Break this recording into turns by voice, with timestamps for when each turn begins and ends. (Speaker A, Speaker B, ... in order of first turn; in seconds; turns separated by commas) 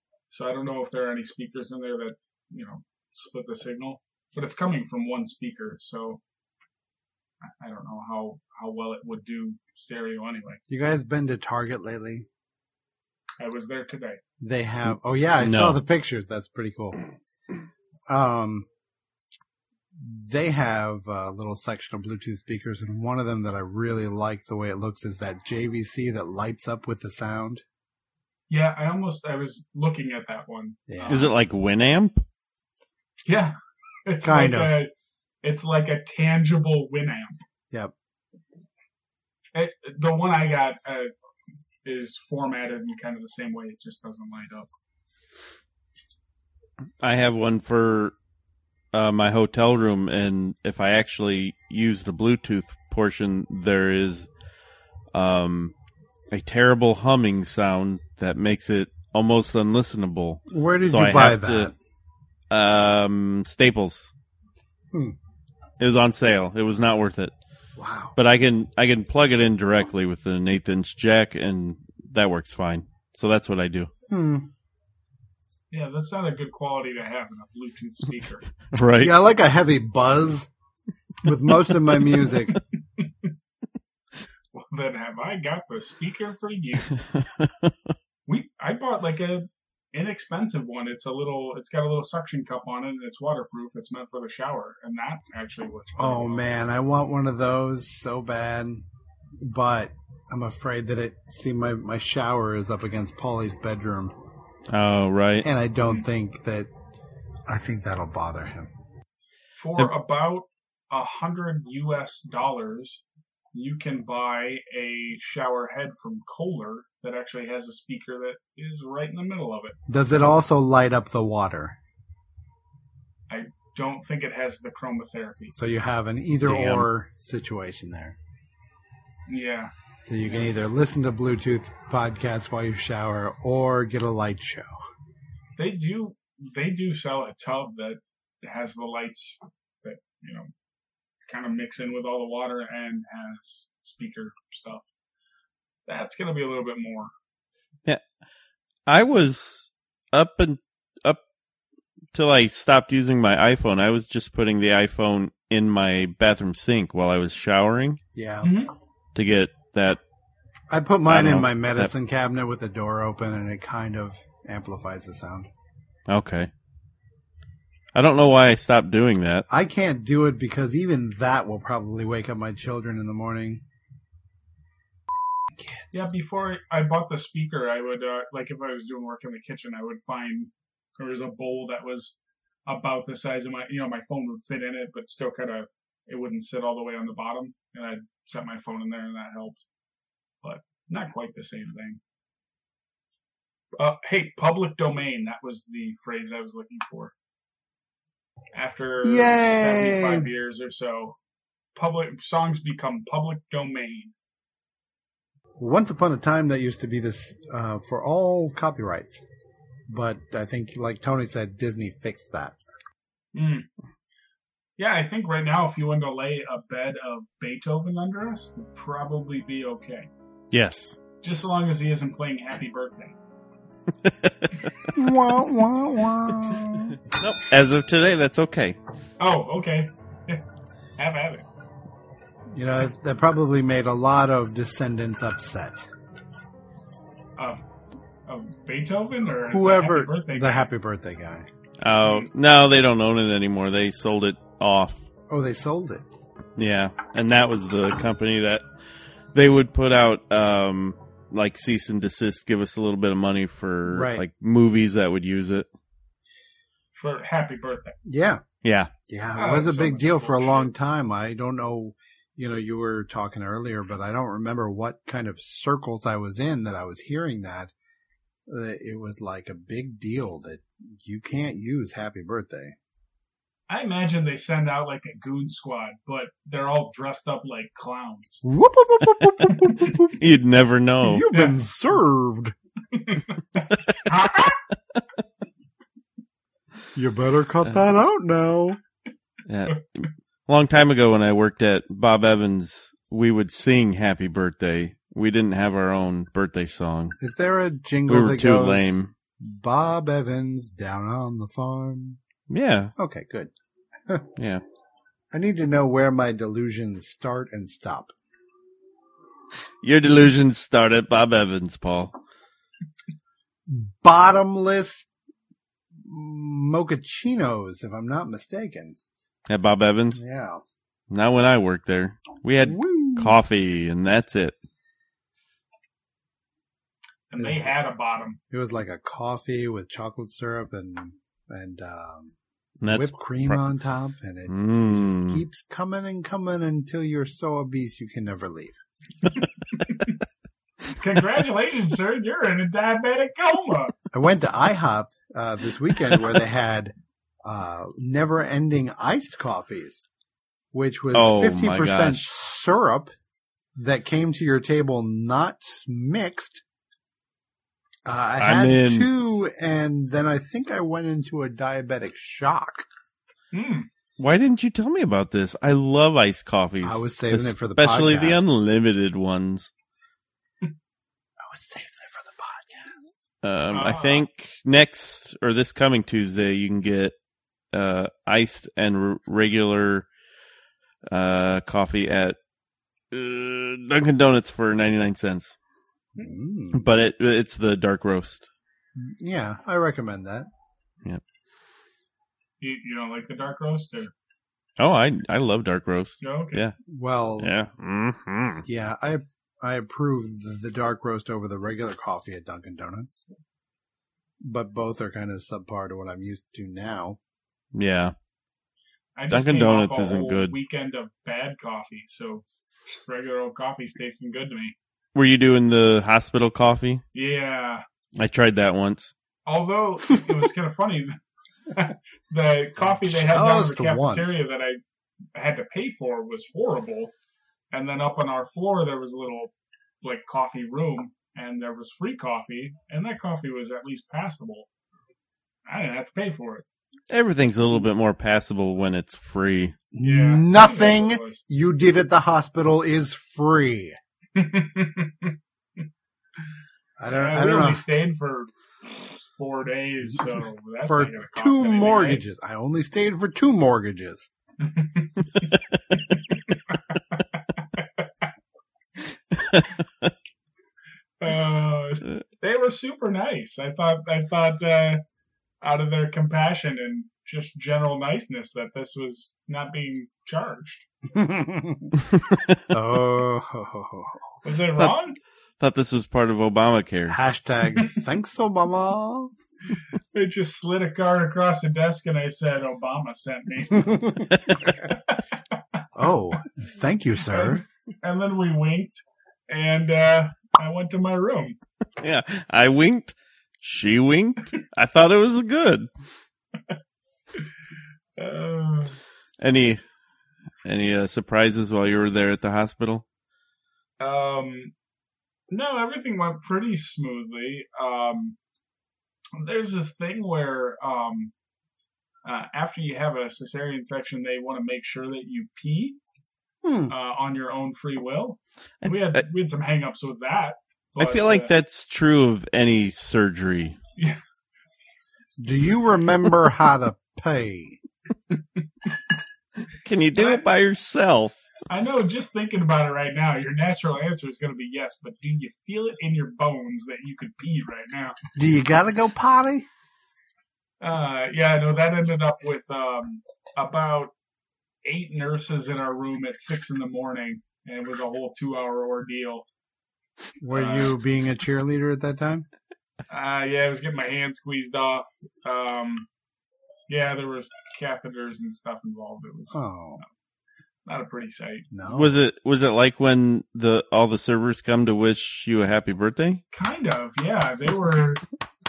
Speaker A: 0.3-6.2, Speaker A: 7.6-10.6, Speaker B: 10.7-12.3, Speaker A: 13.4-14.2, Speaker B: 14.4-17.0, Speaker C: 15.4-15.8, Speaker B: 18.1-18.6, Speaker B: 19.9-27.6, Speaker A: 28.5-31.2, Speaker B: 30.9-31.3, Speaker C: 31.1-32.2, Speaker A: 33.2-33.5, Speaker A: 34.0-34.9, Speaker B: 34.2-34.8, Speaker A: 35.4-37.4, Speaker A: 39.5-41.1, Speaker A: 41.8-44.7, Speaker C: 47.0-48.1, Speaker C: 48.9-54.3, Speaker C: 55.1-55.7, Speaker C: 56.3-61.7, Speaker B: 60.5-61.8, Speaker C: 62.5-64.1, Speaker C: 65.8-67.3, Speaker B: 67.8-68.2, Speaker C: 68.2-73.9, Speaker B: 74.1-74.5, Speaker A: 75.7-78.5, Speaker C: 78.7-79.1, Speaker B: 79.0-80.5, Speaker B: 81.2-82.6, Speaker A: 83.0-83.3, Speaker A: 84.5-86.9, Speaker C: 87.1-87.9, Speaker A: 88.2-96.5, Speaker B: 96.0-98.8, Speaker B: 99.4-104.1, Speaker C: 104.7-105.5, Speaker B: 105.4-106.7, Speaker A: 105.8-106.0, Speaker B: 107.5-108.7, Speaker A: 109.6-113.0, Speaker A: 113.5-119.8, Speaker B: 119.9-121.8, Speaker A: 123.3-125.5, Speaker B: 125.5-128.2, Speaker C: 126.4-126.9, Speaker A: 129.3-129.7, Speaker B: 130.0-134.7, Speaker A: 135.6-140.5, Speaker A: 141.2-144.8, Speaker A: 145.8-147.1, Speaker C: 148.9-151.2, Speaker C: 152.1-158.0, Speaker B: 158.1-158.5, Speaker A: 158.4-158.7, Speaker C: 159.1-160.0, Speaker B: 160.7-165.5, Speaker C: 161.1-161.9, Speaker C: 166.1-166.5, Speaker C: 167.9-169.4, Speaker B: 169.5-173.6, Speaker B: 175.6-175.9, Speaker A: 175.9-189.6, Speaker A: 190.4-192.0, Speaker A: 193.8-197.1, Speaker A: 198.5-201.2, Speaker B: 199.0-200.3, Speaker A: 201.7-204.1, Speaker B: 205.6-209.2, Speaker B: 209.9-212.6, Speaker A: 213.3-213.7, Speaker A: 214.8-220.1, Speaker C: 220.5-221.0, Speaker A: 221.2-223.2, Speaker C: 224.0-224.5, Speaker B: 224.9-226.9, Speaker C: 227.0-228.8, Speaker A: 229.2-230.4, Speaker A: 231.0-231.4, Speaker B: 232.5-235.9, Speaker A: 238.2-240.7, Speaker B: 239.5-241.5, Speaker C: 241.8-245.0, Speaker B: 245.3-246.0, Speaker C: 246.6-248.6, Speaker C: 249.3-255.7, Speaker B: 253.9-254.2, Speaker A: 256.9-257.9, Speaker B: 258.0-258.4, Speaker C: 258.6-258.9, Speaker B: 259.1-267.7, Speaker A: 259.4-260.7, Speaker B: 268.5-272.7, Speaker A: 273.7-278.4, Speaker B: 278.4-280.2, Speaker C: 280.2-281.2, Speaker B: 281.0-282.5, Speaker A: 281.3-281.6, Speaker A: 282.9-284.6, Speaker B: 286.9-288.8, Speaker C: 289.4-297.1, Speaker B: 297.2-302.2, Speaker C: 298.1-299.1, Speaker C: 302.5-302.9, Speaker B: 302.9-303.5, Speaker C: 304.4-304.6, Speaker B: 305.3-308.1, Speaker C: 309.8-312.1, Speaker B: 313.7-315.1, Speaker B: 316.0-318.9, Speaker C: 319.5-320.2, Speaker B: 320.1-320.6, Speaker C: 321.1-324.5, Speaker B: 322.6-323.4, Speaker A: 327.3-328.4, Speaker B: 327.4-327.7, Speaker B: 328.5-332.3, Speaker C: 332.8-333.6, Speaker B: 332.9-338.8, Speaker C: 334.5-335.4, Speaker A: 339.2-340.2, Speaker A: 340.9-343.9, Speaker B: 344.1-350.1, Speaker B: 350.7-353.1, Speaker C: 351.1-352.3, Speaker B: 353.8-356.6, Speaker B: 358.1-362.9, Speaker C: 358.4-359.1, Speaker A: 363.5-363.9, Speaker C: 364.2-369.7, Speaker B: 366.8-368.4, Speaker B: 371.4-373.2, Speaker C: 373.4-377.1, Speaker A: 373.7-374.2, Speaker C: 377.7-380.1, Speaker C: 381.1-382.4, Speaker C: 383.1-385.6, Speaker B: 386.1-386.9, Speaker C: 386.7-388.5, Speaker B: 389.0-390.5, Speaker A: 392.6-394.1, Speaker C: 394.8-396.7, Speaker A: 396.2-396.6, Speaker B: 396.9-397.5, Speaker C: 397.4-398.6, Speaker B: 398.6-403.2, Speaker B: 404.4-407.2, Speaker C: 407.7-408.1, Speaker A: 409.1-414.7, Speaker C: 409.3-410.5, Speaker C: 415.1-417.0, Speaker A: 417.1-417.8, Speaker C: 418.1-419.1, Speaker A: 419.4-421.1, Speaker A: 421.7-424.8, Speaker B: 423.0-424.4, Speaker A: 425.3-427.1, Speaker A: 427.7-429.5, Speaker A: 430.0-434.7, Speaker A: 435.6-436.6, Speaker C: 437.1-439.8, Speaker B: 439.9-444.0, Speaker A: 440.0-441.4, Speaker A: 444.4-445.3, Speaker B: 447.0-447.8, Speaker A: 447.1-452.2, Speaker B: 450.8-454.3, Speaker A: 454.6-458.2, Speaker C: 459.3-460.1, Speaker A: 461.2-465.0, Speaker A: 465.6-470.8, Speaker B: 471.1-471.9, Speaker C: 472.1-472.6, Speaker B: 472.7-474.2, Speaker A: 474.4-475.2, Speaker C: 475.6-477.2, Speaker B: 477.1-479.3, Speaker A: 480.1-484.2, Speaker B: 483.8-484.0, Speaker A: 484.7-485.8, Speaker B: 485.9-487.6, Speaker A: 487.3-491.6, Speaker C: 492.0-495.9, Speaker A: 498.2-498.9, Speaker C: 499.4-499.8, Speaker C: 500.6-503.0, Speaker A: 504.0-504.7, Speaker A: 505.5-508.4, Speaker A: 509.4-511.3, Speaker A: 512.2-516.0, Speaker B: 516.6-516.9, Speaker A: 516.9-521.5, Speaker C: 518.8-519.2, Speaker C: 521.0-523.8, Speaker B: 525.4-527.8, Speaker C: 529.8-531.4, Speaker A: 530.1-530.4, Speaker A: 531.7-538.2, Speaker B: 538.4-539.7, Speaker A: 540.8-544.1, Speaker A: 544.8-549.4, Speaker B: 550.4-552.5, Speaker A: 550.5-550.9, Speaker A: 553.1-556.1, Speaker A: 556.9-559.6, Speaker B: 559.5-560.0, Speaker A: 560.9-561.7, Speaker B: 561.7-562.2, Speaker C: 561.9-566.4, Speaker A: 566.5-568.2